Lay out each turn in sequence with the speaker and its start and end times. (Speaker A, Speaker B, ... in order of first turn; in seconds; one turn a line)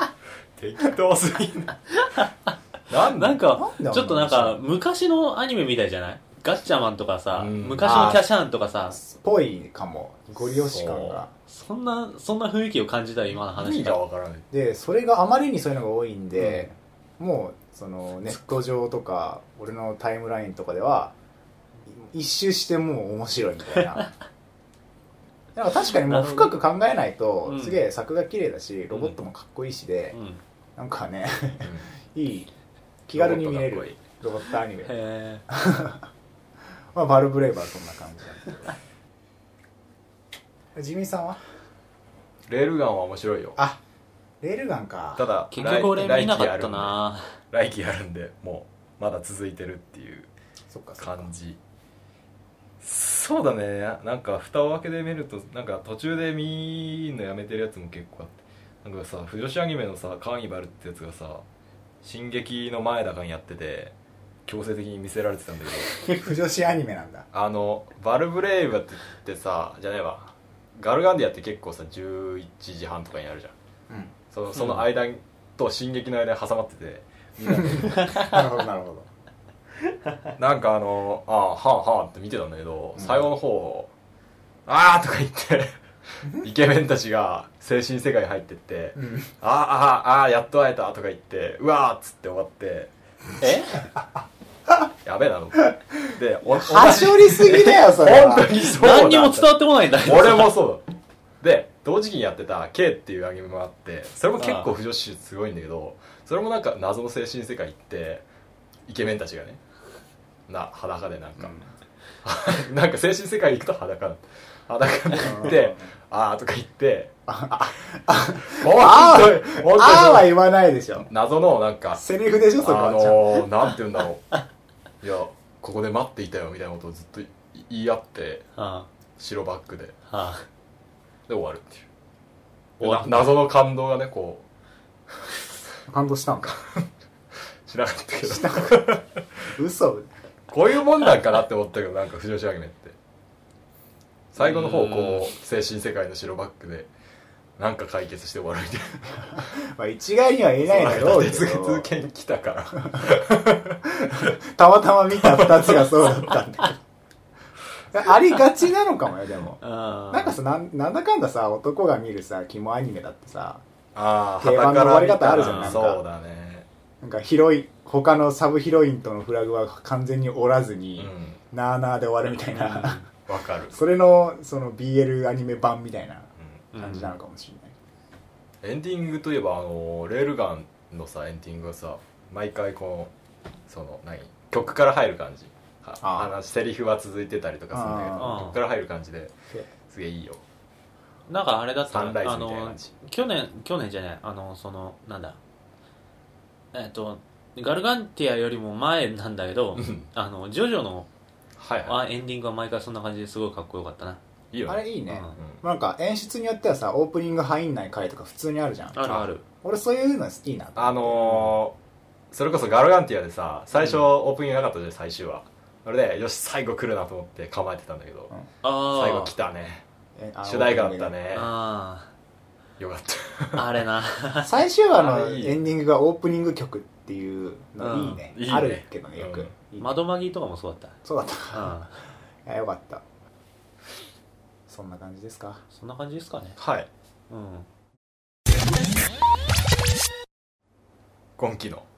Speaker A: 0.6-1.7
Speaker B: 1.9-2.5
Speaker A: 2.9-3.4
Speaker B: 3.0-9.0
Speaker C: 3.5-4.6
Speaker A: 7.3-8.2
Speaker C: 7.8-8.2
Speaker C: 8.9-11.3
Speaker A: 10.5-11.2
Speaker B: 11.5-14.0
Speaker A: 13.4-14.4
Speaker C: 14.5-21.1
Speaker C: 21.9-24.1
Speaker B: 23.8-24.1
Speaker C: 25.5-30.1
Speaker B: 25.9-26.6
Speaker B: 27.4-27.8
Speaker B: 30.1-30.4
Speaker C: 30.8-32.5
Speaker C: 33.1-34.9
Speaker A: 33.1-34.0
Speaker B: 34.9-35.4
Speaker C: 35.5-36.1
Speaker C: 36.9-38.7
Speaker C: 40.7-41.4
Speaker A: 42.5-43.6
Speaker C: 44.4-45.2
Speaker A: 45.2-47.0
Speaker B: 45.5-47.3
Speaker A: 47.5-50.3
Speaker C: 50.7-51.3
Speaker A: 51.0-51.6
Speaker A: 52.8-61.4
Speaker A: 62.0-63.9
Speaker A: 64.5-66.0
Speaker C: 66.0-67.2
Speaker A: 67.3-73.5
Speaker A: 74.3-78.2
Speaker B: 74.5-74.8
Speaker C: 77.5-79.1
Speaker B: 78.0-78.3
Speaker A: 80.4-83.9
Speaker C: 83.0-83.3
Speaker A: 84.7-92.9
Speaker C: 89.0-89.3
Speaker B: 93.4-93.8
Speaker A: 95.0-100.8
Speaker C: 96.5-98.6
Speaker B: 98.7-100.5
Speaker A: 101.4-108.2
Speaker B: 104.4-104.7
Speaker A: 108.9-109.6
Speaker A: 110.5-111.5
Speaker C: 111.4-111.7
Speaker A: 112.2-117.1
Speaker C: 115.2-115.9
Speaker C: 117.3-121.1
Speaker A: 118.4-120.3
Speaker A: 121.0-122.0
Speaker C: 121.9-123.5
Speaker A: 122.6-124.4
Speaker A: 125.0-128.5
Speaker B: 128.6-128.9
Speaker A: 129.2-130.0
Speaker B: 130.1-130.4
Speaker A: 131.3-131.8
Speaker B: 132.8-133.3
Speaker A: 132.8-134.4
Speaker C: 135.9-136.6
Speaker A: 136.4-136.8
Speaker A: 137.7-139.5
Speaker C: 138.2-139.0
Speaker C: 139.5-140.1
Speaker A: 140.5-142.9
Speaker A: 144.3-146.9
Speaker B: 144.4-145.3
Speaker A: 147.6-149.5
Speaker C: 149.3-151.9
Speaker A: 150.6-154.3
Speaker C: 154.0-156.8
Speaker A: 155.2-156.3
Speaker C: 157.9-159.6
Speaker B: 159.6-160.4
Speaker C: 160.1-163.6
Speaker A: 163.9-166.7
Speaker C: 164.4-166.0
Speaker B: 165.3-165.8
Speaker C: 167.0-173.0
Speaker A: 171.0-171.4
Speaker B: 172.6-173.1
Speaker A: 173.2-173.8
Speaker C: 173.7-177.7
Speaker A: 176.4-176.7
Speaker B: 176.7-177.1
Speaker A: 178.6-183.1
Speaker A: 183.7-189.3
Speaker C: 186.0-186.3
Speaker C: 187.7-188.4
Speaker B: 188.2-188.6
Speaker A: 189.9-190.4
Speaker B: 191.3-195.4
Speaker A: 191.9-192.9
Speaker B: 196.7-201.1
Speaker A: 199.8-200.1
Speaker A: 201.6-202.0
Speaker B: 201.8-204.2
Speaker A: 204.5-204.8
Speaker C: 204.7-209.0
Speaker B: 205.1-205.4
Speaker A: 205.4-205.6
Speaker B: 208.9-209.4
Speaker C: 209.6-211.5
Speaker A: 210.8-211.7
Speaker A: 212.3-218.3
Speaker B: 218.6-219.3
Speaker A: 218.9-219.8
Speaker C: 220.2-221.1
Speaker A: 220.4-221.5
Speaker B: 221.3-222.1
Speaker A: 222.8-223.7
Speaker B: 223.6-224.5
Speaker C: 224.4-229.9
Speaker A: 224.9-225.6
Speaker B: 227.8-228.2
Speaker A: 228.3-229.5
Speaker B: 229.8-231.0
Speaker C: 231.0-231.8
Speaker B: 231.5-232.0
Speaker C: 232.4-233.0
Speaker C: 234.7-235.6
Speaker B: 235.7-236.6
Speaker A: 236.6-236.9
Speaker B: 237.3-237.7
Speaker A: 241.4-241.8